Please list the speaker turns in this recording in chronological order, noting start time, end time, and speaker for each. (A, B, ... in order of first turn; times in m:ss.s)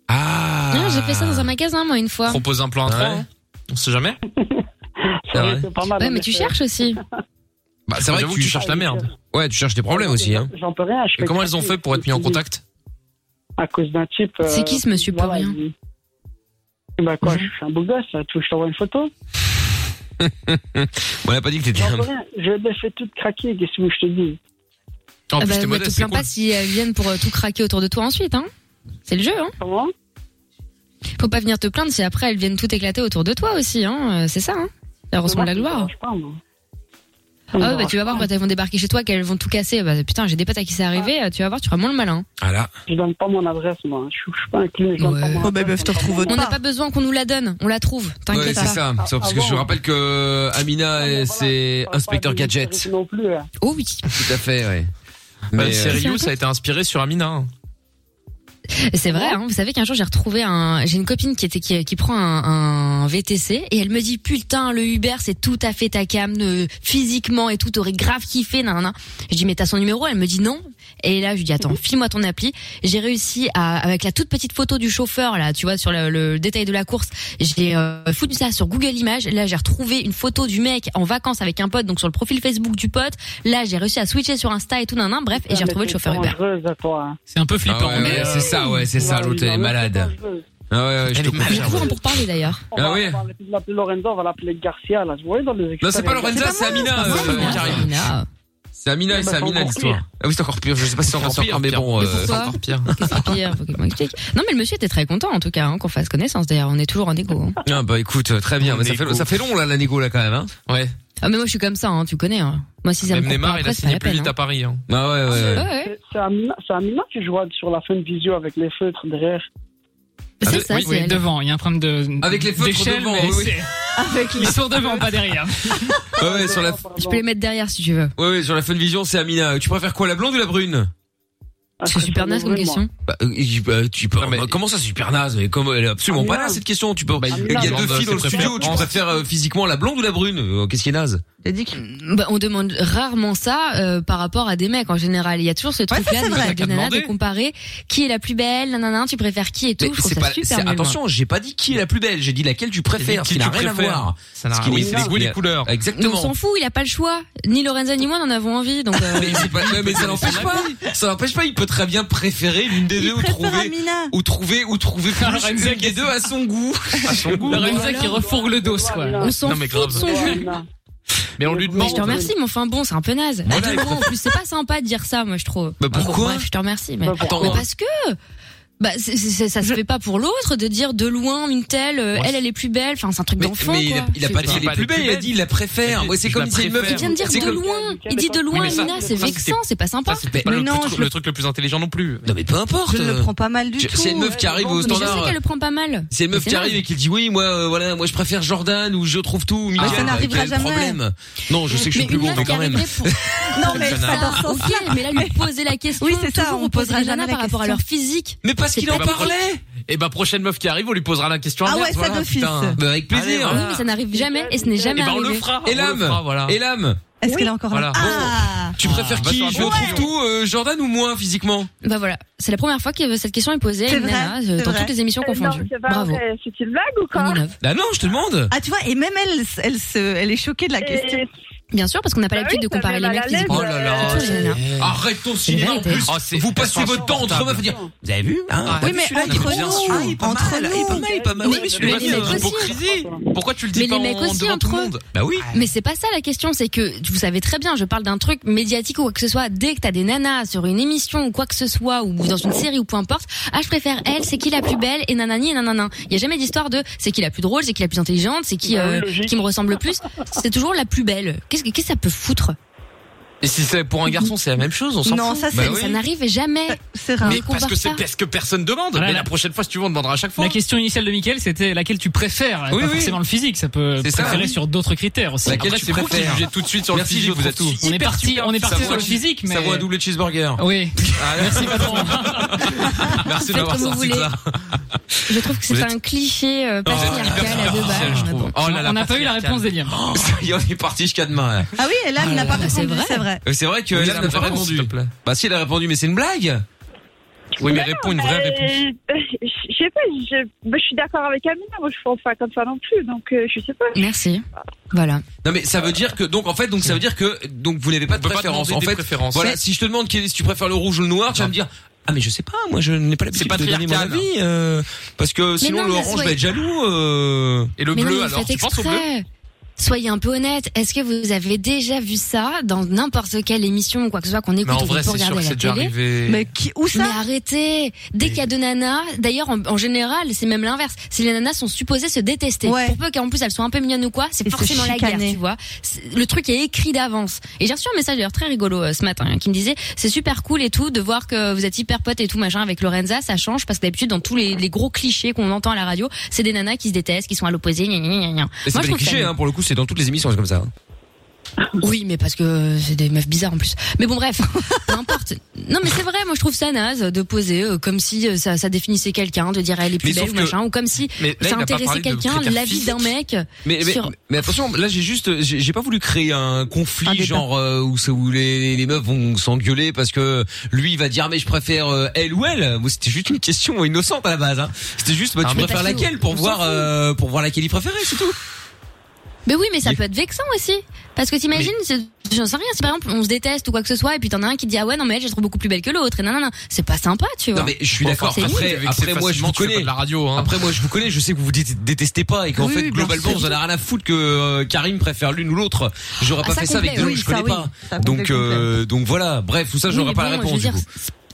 0:00.1-0:01.5 A
0:00.7-0:02.4 B
0:02.3-0:04.2 C
0:02.8-0:03.2 A
0:04.4-0:04.6 D
0:05.3-0:06.6 D
0:05.3-0:05.7 C
0:06.0-0:07.0 B
0:07.9-0:08.8 A
0:08.0-0:09.1 C
0:08.6-0:09.0 D
0:09.3-0:10.5 A
0:09.9-0:12.4 D
0:11.2-0:12.6 C
0:13.6-0:15.7 D
0:14.4-0:15.6 B
0:17.0-0:19.1 D
0:17.2-0:17.5 B
0:20.2-0:22.1 A
0:21.8-0:24.4 D
0:25.3-0:26.3 C
0:25.4-0:28.5 B
0:29.1-0:29.5 B
0:29.6-0:29.9 D
0:31.2-0:35.9 B
0:35.2-0:36.4 D
0:37.5-0:38.3 D
0:37.6-0:42.3 B
0:42.4-0:42.7 A
0:42.9-0:46.4 D
0:45.0-0:45.5 B
0:45.4-0:46.6 E
0:46.3-0:48.8 B
0:48.3-0:52.9 A
0:49.0-0:49.7 D
0:51.0-0:53.5 D
0:53.6-0:54.0 B
0:54.1-0:54.9 A
0:55.5-0:56.0 A
0:55.6-0:57.5 C
0:55.9-0:56.3 B
0:58.8-1:26.4 B
0:59.1-0:59.4 D
1:25.3-1:27.2 D
1:27.3-1:28.8 F
1:27.6-1:30.1 A
1:28.1-1:30.4 D
1:30.7-1:32.0 A
1:31.1-1:32.0 C
1:31.4-1:32.6 B
1:32.7-1:36.9 D
1:32.8-1:33.2 A
1:35.8-1:38.0 A
1:36.3-1:37.7 E
1:36.8-1:38.3 B
1:38.8-1:43.3 A
1:39.1-1:40.0 D
1:41.0-1:43.2 C
1:42.0-1:47.6 B
1:47.6-1:50.5 A
1:48.6-1:49.3 C
1:51.2-1:54.3 B
1:53.0-1:54.8 C
1:54.9-1:55.7 A
1:55.3-1:59.5 D
1:55.4-1:55.9 B
2:00.4-2:01.2 B
2:00.4-2:01.0 C
2:00.6-2:06.0 F
2:02.2-2:03.6 A
2:04.0-2:04.6 E
2:06.2-2:06.8 A
2:06.2-2:07.2 D
2:07.0-2:08.1 B
2:08.2-2:10.9 A
2:11.8-2:12.8 D
2:11.9-2:12.9 B
2:13.1-2:21.2 A
2:14.2-2:14.5 C
2:16.1-2:16.6 D
2:17.2-2:18.9 C
2:17.3-2:18.9 D
2:21.4-2:21.8 E
2:21.8-2:31.0 B
2:25.9-2:26.6 E
2:26.3-2:27.1 C
2:29.8-2:36.3 A
2:33.0-2:35.7 C
2:34.7-2:35.1 D
2:36.0-2:39.7 B
2:39.1-2:47.7 A
2:39.3-2:40.8 C
2:42.9-2:44.1 E
2:45.1-2:46.1 F
2:47.0-2:48.0 C
2:47.4-2:49.3 F
2:47.5-2:50.7 D
2:49.2-2:50.5 B
2:49.4-2:50.3 C
2:51.4-2:52.3 C
2:51.4-2:52.3 D
2:51.8-2:58.2 B
2:53.5-2:54.1 A
2:55.8-2:56.5 A
2:57.0-2:57.6 D
2:57.2-2:57.6 A
2:58.8-3:04.6 B
3:03.4-3:07.6 A
3:04.2-3:05.3 C
3:05.8-3:07.2 C
3:06.9-3:10.2 B
3:07.0-3:09.4 D
3:08.5-3:09.6 C
3:10.1-3:12.3 C
3:10.3-3:11.1 A
3:10.4-3:11.0 E
3:12.2-3:15.4 A
3:12.8-3:14.4 E
3:14.2-3:15.3 D
3:14.7-3:16.8 B
3:16.1-3:24.2 A
3:19.8-3:20.3 C
3:19.8-3:21.0 E
3:21.8-3:29.4 B
3:22.2-3:22.6 C
3:23.6-3:27.8 E
3:23.8-3:24.4 C
3:28.4-3:29.6 A
3:28.9-3:33.8 C
3:31.6-3:32.8 E
3:32.8-3:33.6 A
3:33.4-3:35.5 B
3:34.2-3:34.8 D
3:34.8-3:36.6 C
3:35.6-3:37.0 A
3:37.2-3:38.8 E
3:37.7-3:40.1 C
3:37.9-3:41.7 A
3:39.0-3:39.3 F
3:39.5-3:40.0 G
3:41.8-3:46.2 B
3:43.9-3:44.9 E
3:45.2-3:47.4 G
3:47.1-3:47.6 B
3:47.6-3:48.5 A
3:48.5-3:51.2 E
3:50.8-3:51.3 G
3:51.7-3:54.6 B
3:52.3-3:54.5 G
3:53.5-4:02.5 A
3:54.0-3:54.9 C
3:55.5-3:56.1 B
3:56.0-3:57.7 C
3:56.6-3:57.9 D
3:58.7-4:00.9 C
3:58.8-4:01.0 E
4:00.9-4:03.3 D
4:01.4-4:02.8 B
4:01.8-4:05.1 C
4:03.7-4:04.9 B
4:05.1-4:05.5 A
4:05.5-4:22.6 B
4:18.6-4:19.4 D
4:23.4-4:25.8 C
4:25.0-4:25.9 E
4:25.5-4:28.0 B
4:25.5-4:25.8 A
4:26.7-4:27.4 E
4:27.2-4:30.6 C
4:29.0-4:29.3 F
4:30.4-4:35.8 F
4:32.7-4:33.2 A
4:34.0-4:34.5 A
4:35.4-4:44.6 A
4:35.5-4:39.2 C
4:37.8-4:39.9 F
4:40.6-4:42.5 F
4:41.2-4:42.2 C
4:43.2-4:44.3 B
4:45.3-4:48.3 B
4:45.3-4:45.9 A
4:46.9-4:49.1 A
4:46.9-4:49.7 C
4:48.6-4:50.0 F
4:49.8-4:51.7 A
4:51.8-4:53.4 E
4:52.2-4:53.3 B
4:53.4-4:56.6 A
4:53.9-4:55.1 C
4:57.6-4:58.8 C
4:57.6-5:04.0 G
5:03.9-5:05.2 B
5:05.4-5:17.7 A
5:08.1-5:09.6 C
5:13.3-5:14.3 C
5:15.6-5:16.4 B
5:17.8-5:19.0 C
5:17.9-5:19.2 B
5:19.8-5:25.9 B
5:24.6-5:26.5 C
5:26.3-5:27.2 E
5:26.9-5:49.3 B
5:32.6-5:33.0 E
5:34.5-5:35.4 E
5:48.7-5:50.7 A
5:51.8-6:04.1 B
6:00.0-6:00.6 A
6:01.2-6:03.1 C
6:03.6-6:18.4 A
6:07.1-6:07.4 E
6:15.4-6:15.8 C
6:15.5-6:16.8 B
6:19.5-6:27.7 B
6:27.6-6:40.8 A
6:28.0-6:30.5 C
6:28.3-6:28.7 B
6:32.6-6:33.6 E
6:36.4-6:37.2 B
6:36.9-6:38.7 E
6:39.9-6:40.8 B